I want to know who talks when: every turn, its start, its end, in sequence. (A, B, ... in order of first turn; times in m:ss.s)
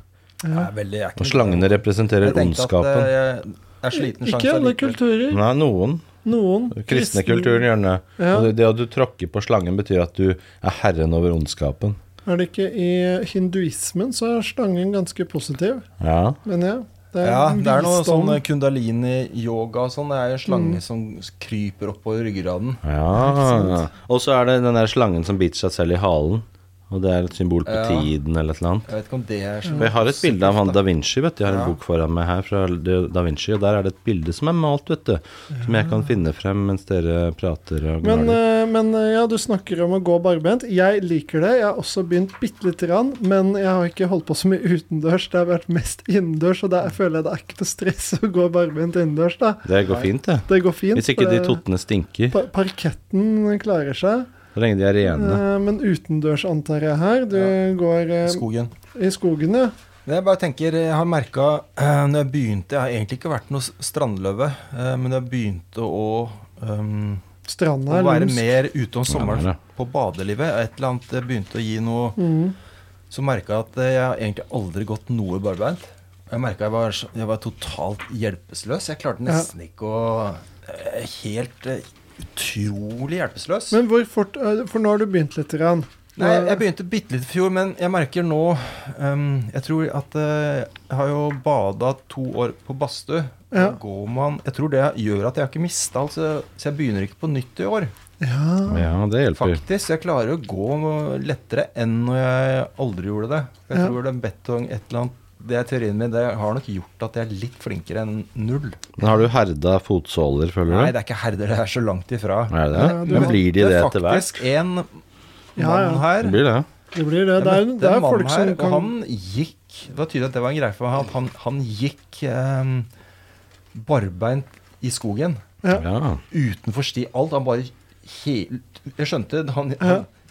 0:00.4-0:00.7 A
0:00.5-0:05.0 B
0:01.2-0:03.1 C
0:03.9-0:05.4 A
0:05.3-0:06.1 C
0:06.2-0:07.7 A
0:06.7-0:12.0 C
0:08.2-0:08.5 A
0:12.2-0:15.8 A
0:16.0-0:16.4 C
0:16.4-0:18.4 A
0:17.2-0:22.8 B
0:20.5-0:20.8 A
0:22.8-0:28.9 C
0:23.1-0:23.8 A
0:27.6-0:28.1 B
0:28.9-0:30.8 B
0:29.7-0:38.4 C
0:31.4-0:31.8 B
0:35.6-0:36.0 A
0:38.0-0:49.7 A
0:49.6-0:52.4 C
0:50.5-0:51.6 A
0:52.3-0:54.3 A
0:54.5-0:55.4 C
0:55.0-0:58.4 A
0:58.2-0:58.7 B
0:58.9-0:59.7 A
1:00.0-1:07.2 B
1:07.5-1:08.5 A
1:07.9-1:12.2 B
1:09.1-1:09.6 C
1:12.2-1:12.5 A
1:13.1-1:23.8 B
1:23.7-1:26.6 A
1:26.2-1:37.9 B
1:33.5-1:33.8 A
1:38.2-1:38.9 A
1:38.7-1:39.6 C
1:39.4-1:48.9 B
1:49.0-1:50.9 C
1:50.7-1:54.9 B
1:52.5-1:54.3 C
1:52.7-1:53.4 A
1:55.6-1:56.1 A
1:55.6-1:56.4 B
1:56.2-1:56.7 C
1:56.9-1:58.9 A
1:57.4-2:02.9 B
2:03.7-2:05.4 B
2:05.7-2:06.2 C
2:06.3-2:10.1 B